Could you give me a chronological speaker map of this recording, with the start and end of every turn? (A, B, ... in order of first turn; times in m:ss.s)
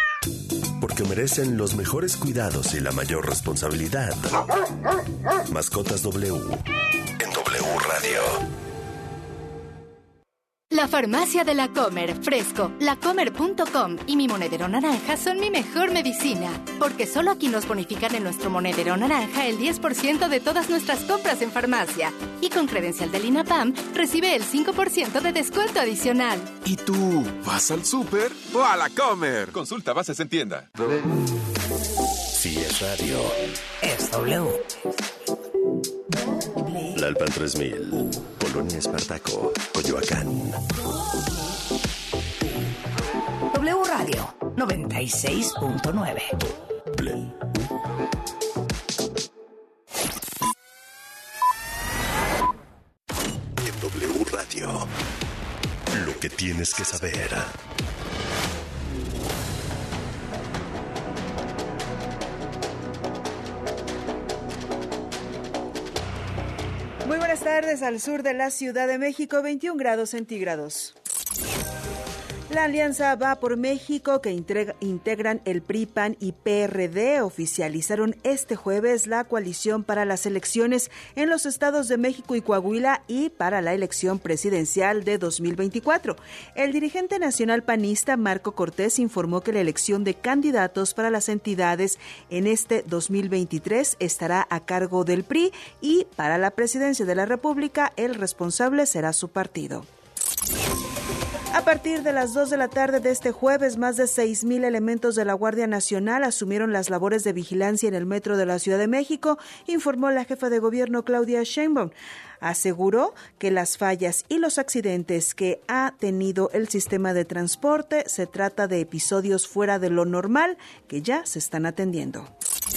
0:00.8-0:04.4 A
0:05.5-0:06.6 A
0:07.2-0:08.4 A
0:10.7-0:26.5 B
0:26.6-0:30.7 C
0:32.4-0:33.4 A
0:33.8-0:34.6 D
0:36.6-0:36.8 D
0:36.9-0:40.6 A
0:43.5-0:46.3 D
0:53.6-0:54.9 A
0:55.9-0:57.5 A
1:07.0-1:10.9 E
1:12.5-1:39.9 E
1:41.5-2:02.3 E